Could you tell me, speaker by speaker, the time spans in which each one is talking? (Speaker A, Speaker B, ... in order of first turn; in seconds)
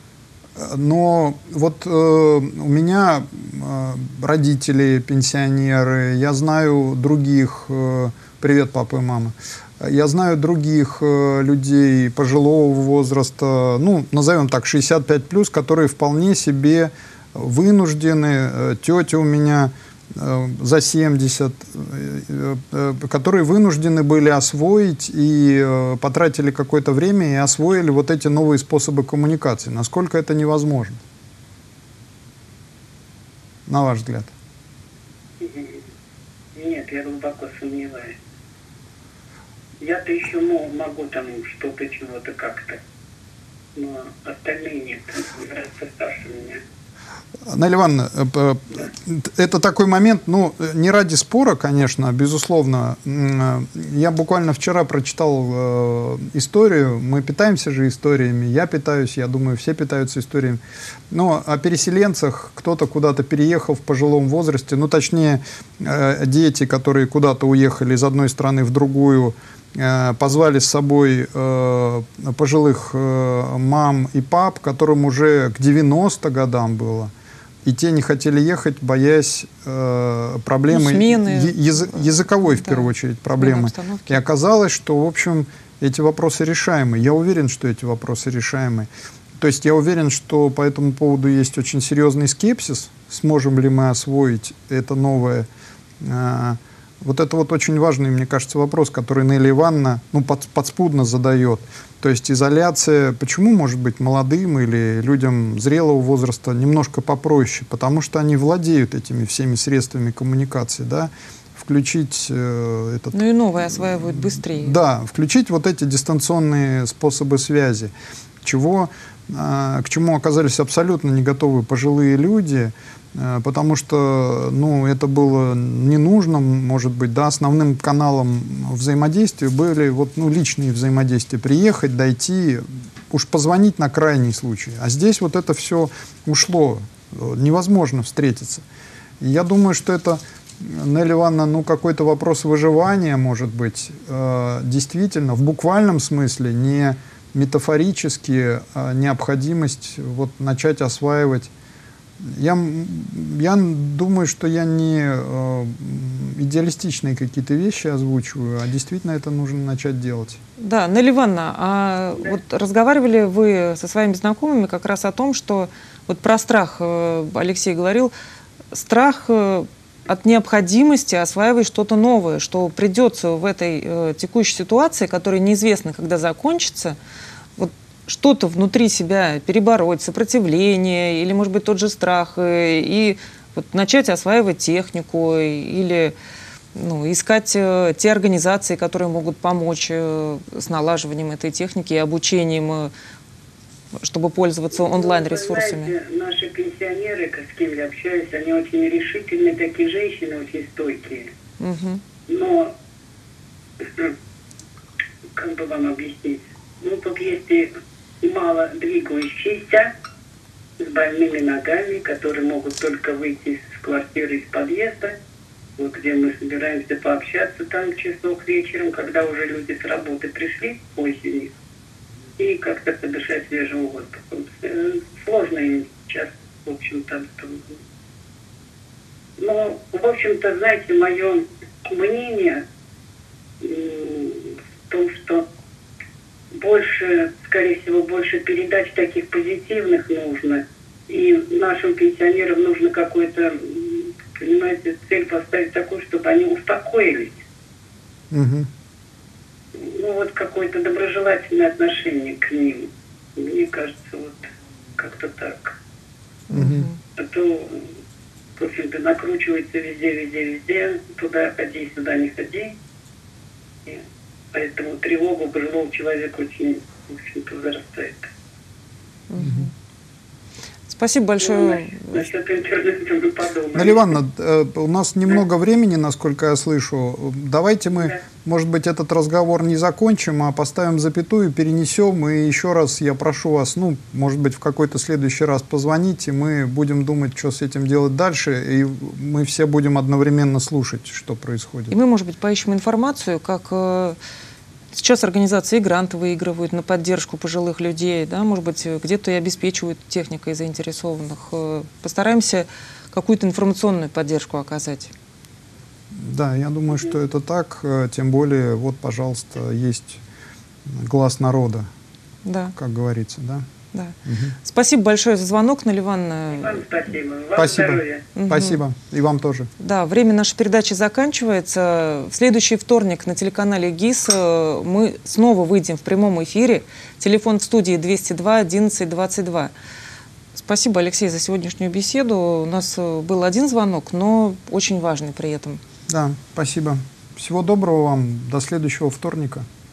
Speaker A: 0.6-31.0, 33.7-34.3, 47.5-60.6, 61.1-77.1, 77.6-95.5, 96.0-113.2, 113.8-117.9, 118.4-138.6, 139.2-151.5, 152.2-160.4, 248.3-248.7, 256.5-256.9, 269.4-269.7, 273.7-291.9, 306.1-310.2, 310.8-311.9, 312.8-313.7, 314.2-314.6, 317.6-319.7, 336.1-339.6
Speaker B: 35.4-35.8, 36.5-38.2, 39.8-42.8, 43.7-46.6, 194.8-201.3, 202.3-202.7, 203.8-204.1, 205.3-207.7, 208.2-209.9, 210.8-215.1, 215.8-221.5, 222.4-227.8, 229.4-232.6, 233.6-235.4, 236.5-247.4, 249.7-255.8, 257.1-257.9, 258.6-262.8, 263.9-268.3, 271.4-274.1, 316.5-318.3
Speaker C: 80.7-84.2, 113.1-114.8, 160.6-168.1, 168.7-177.0, 177.6-186.1, 186.7-192.9, 194.0-195.9, 201.6-202.0, 256.5-257.0, 269.3-269.7, 270.9-272.2, 291.9-294.2, 294.9-305.1, 312.4-312.7, 313.9-316.8, 318.3-318.8, 319.8-329.7, 330.5-335.8